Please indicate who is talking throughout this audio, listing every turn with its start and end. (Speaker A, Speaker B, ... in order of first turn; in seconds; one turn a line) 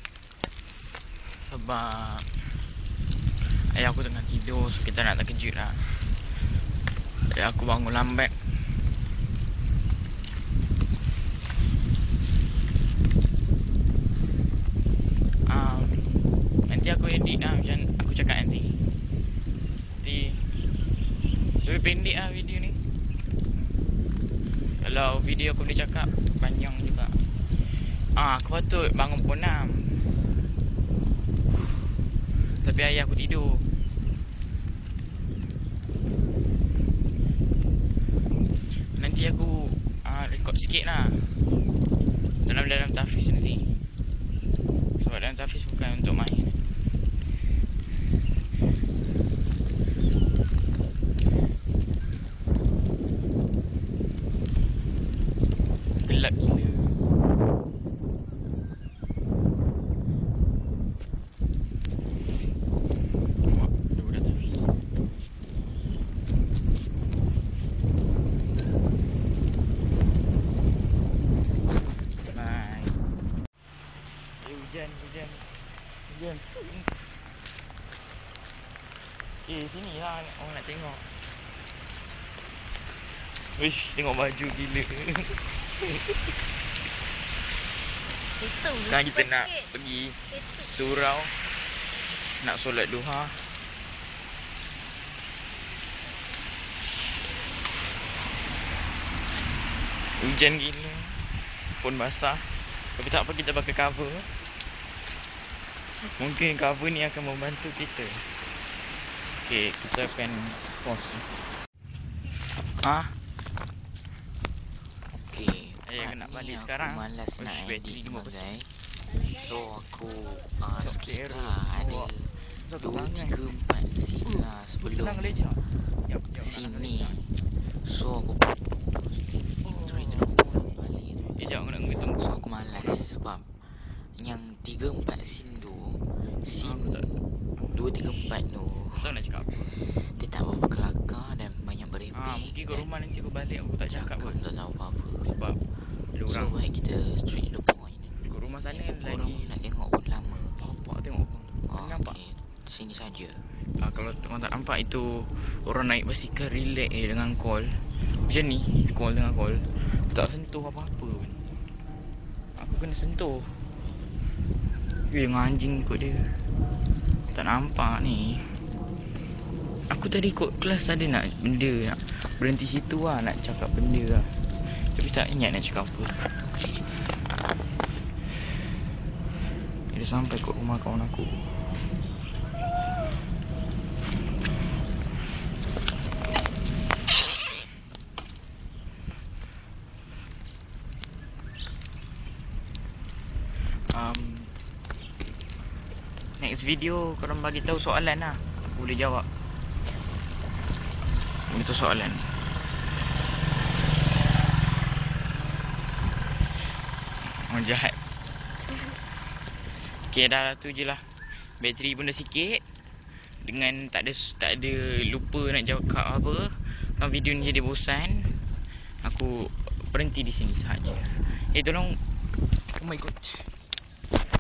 Speaker A: 1.2-2.7
Speaker A: 3.4-6.1
Speaker A: 7.2-8.5
Speaker A: 15.4-18.9
Speaker A: 19.9-20.5
Speaker A: 21.5-22.8
Speaker A: 24.6-30.2
Speaker A: 32.5-33.7
Speaker A: 38.7-41.5
Speaker A: 42.4-43.8
Speaker A: 45.0-46.6
Speaker A: 56.0-57.0
Speaker A: 63.4-64.7
Speaker A: 72.3-73.0
Speaker A: 74.3-76.9
Speaker A: 79.4-81.1
Speaker A: 83.4-86.3
Speaker A: 88.5-91.5
Speaker A: 92.1-93.6
Speaker A: 100.1-104.3
Speaker A: 106.0-108.3
Speaker A: 109.3-111.3
Speaker A: 112.3-113.2
Speaker B: 115.1-125.7
Speaker A: 115.8-118.5
Speaker A: 120.8-123.4
Speaker A: 124.2-127.2
Speaker B: 126.4-139.1
Speaker A: 129.6-133.0
Speaker A: 136.5-137.8
Speaker A: 138.9-139.8
Speaker B: 139.7-142.9
Speaker A: 142.1-144.4
Speaker B: 143.9-145.3
Speaker A: 145.2-146.6
Speaker B: 146.3-150.6
Speaker A: 148.1-149.6
Speaker A: 150.5-152.2
Speaker B: 151.6-153.4
Speaker A: 153.6-161.5
Speaker A: 162.5-163.6
Speaker A: 165.1-166.4
Speaker A: 167.3-168.6
Speaker A: 169.9-176.4
Speaker A: 179.9-181.8
Speaker A: 193.6-194.6
Speaker A: 196.4-199.3
Speaker A: 201.4-202.3
Speaker A: 207.2-208.0
Speaker A: 209.8-222.0
Speaker A: 222.7-223.5